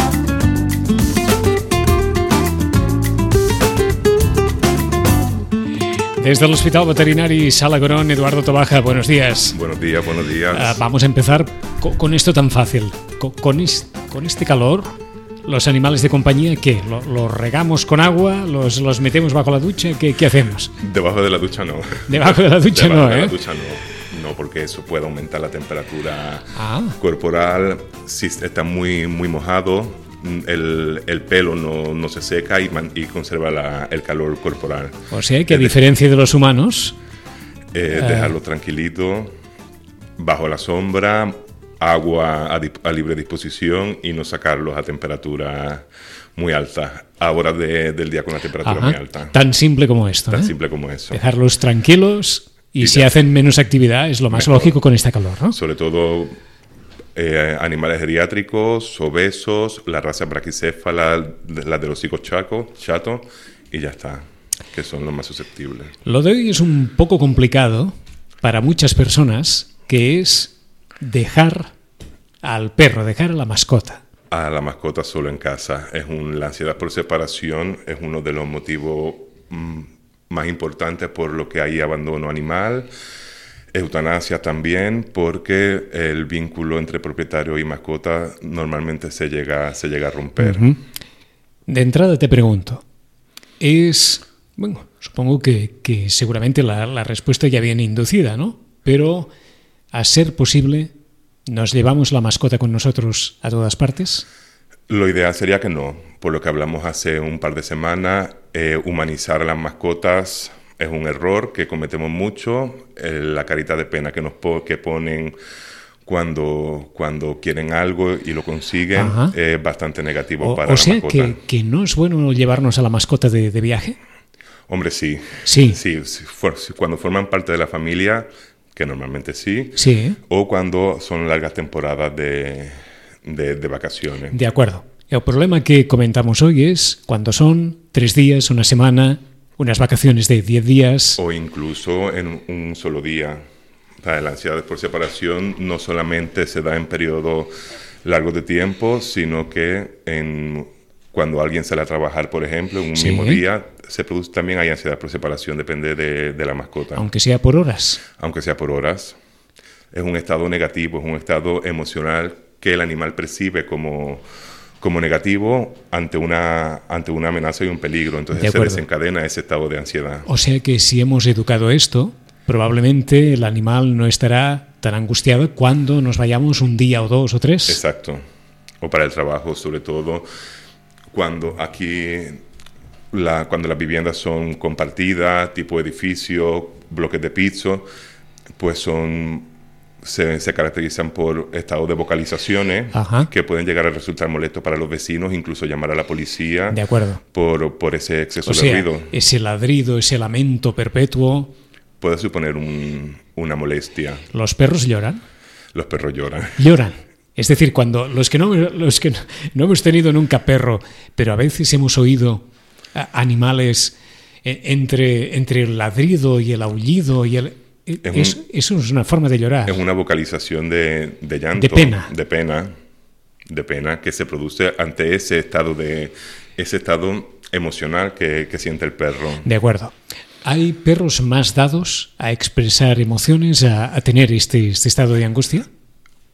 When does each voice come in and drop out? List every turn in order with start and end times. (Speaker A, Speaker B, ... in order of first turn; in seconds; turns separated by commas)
Speaker A: 6.2-9.6, Speaker B: 9.5-10.8, Speaker A: 10.5-14.9, Speaker A: 15.5-20.7, Speaker B: 20.8-35.8, Speaker A: 22.1-23.4, Speaker A: 26.5-27.0, Speaker A: 35.1-37.0, Speaker B: 37.7-39.3, Speaker A: 37.9-38.3, Speaker B: 40.2-49.4, Speaker A: 48.6-50.5, Speaker B: 50.3-51.2, Speaker A: 51.1-55.5, Speaker B: 52.8-53.1, Speaker B: 54.3-54.8, Speaker B: 55.5-56.4, Speaker B: 57.1-66.0, Speaker A: 66.0-71.7, Speaker A: 72.4-74.0, Speaker B: 74.3-82.9, Speaker B: 83.7-90.8, Speaker A: 90.4-90.8, Speaker A: 91.7-92.8, Speaker A: 93.6-99.3, Speaker A: 99.9-100.9, Speaker A: 101.5-104.2, Speaker B: 104.9-115.4, Speaker B: 116.0-121.4, Speaker A: 118.9-119.3, Speaker A: 120.4-124.0, Speaker B: 124.7-134.4, Speaker A: 125.5-125.8, Speaker A: 129.8-130.2, Speaker A: 134.3-141.2, Speaker B: 141.2-143.4, Speaker B: 144.0-147.5, Speaker B: 148.0-157.1, Speaker A: 152.9-153.4, Speaker A: 156.9-158.0, Speaker B: 158.2-159.2, Speaker B: 159.9-164.2, Speaker B: 164.8-170.3, Speaker A: 168.3-168.8, Speaker A: 170.2-177.8, Speaker B: 177.7-178.2, Speaker B: 178.8-180.2, Speaker B: 181.1-182.4, Speaker B: 183.1-187.9, Speaker B: 188.6-189.5, Speaker B: 190.0-196.8, Speaker A: 192.9-193.3, Speaker A: 196.7-197.2, Speaker B: 197.3-199.1, Speaker A: 198.4-201.5, Speaker B: 202.0-204.3, Speaker A: 204.3-205.2, Speaker B: 205.7-206.8, Speaker A: 206.6-219.8, Speaker B: 218.0-218.4, Speaker B: 219.7-222.7, Speaker A: 221.5-222.1, Speaker B: 223.5-229.5, Speaker A: 229.4-229.9, Speaker A: 230.4-235.7